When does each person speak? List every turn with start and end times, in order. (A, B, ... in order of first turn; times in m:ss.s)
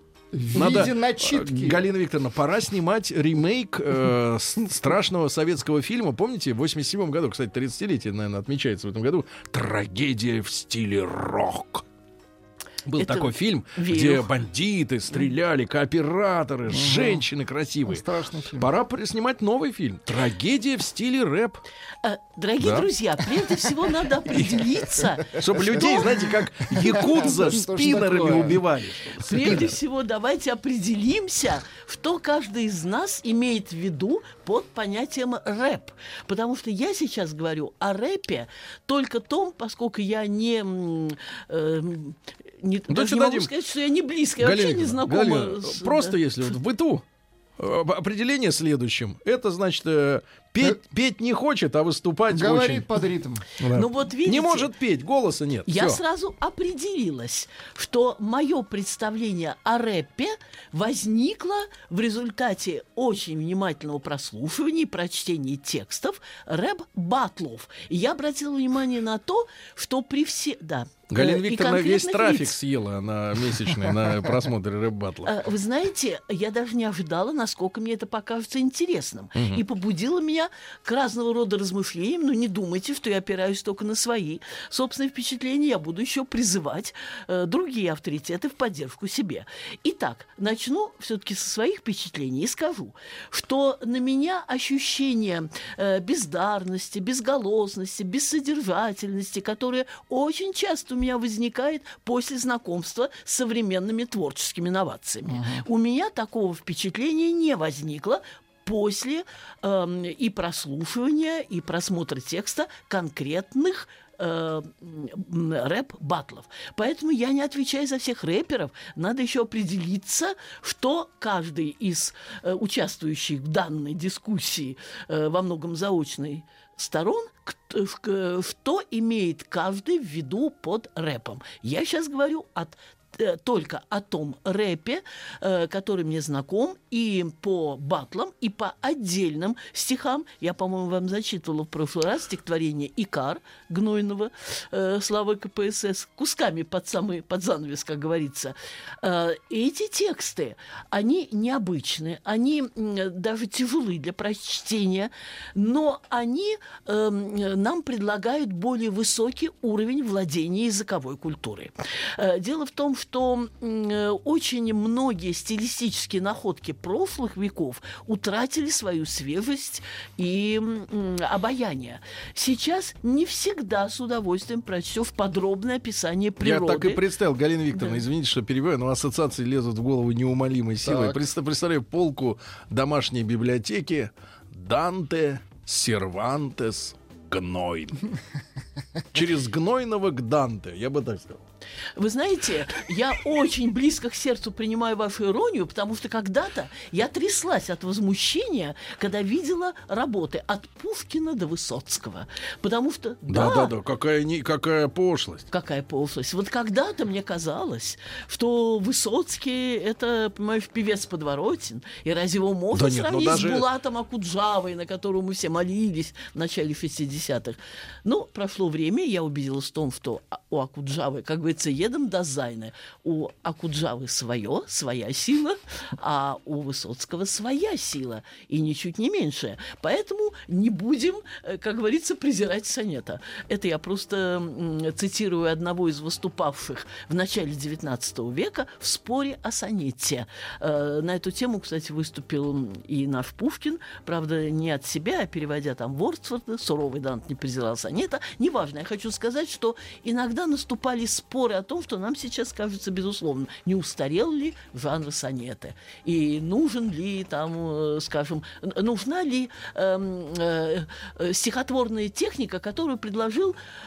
0:00.3-0:01.8 A
0:00.5-0:11.8 B
0:12.8-0:21.6 B
0:13.0-0:14.3 C
0:16.7-0:17.2 A
0:17.9-0:18.7 A
0:22.0-0:26.3 C
0:22.6-0:22.9 B
0:24.3-0:24.7 B
0:25.3-0:29.7 B
0:26.7-0:28.6 A
0:26.9-0:27.4 C
0:29.2-0:46.3 C
0:42.9-0:43.5 B
0:44.4-0:47.0 B
0:47.6-0:52.9 B
0:52.3-0:53.4 A
0:53.6-0:56.0 B
0:53.7-0:54.7 C
0:55.7-1:12.6 C
1:11.1-1:15.3 B
1:15.2-2:57.0 C
1:19.4-1:19.6 B
1:45.3-1:45.6 A
2:56.4-3:08.1 B
2:57.7-2:58.0 C
3:00.8-3:01.2 A
3:09.1-3:11.4 B
3:12.0-3:23.7 C
3:23.3-3:25.5 B
3:25.5-4:23.6 C
3:32.7-3:33.7 B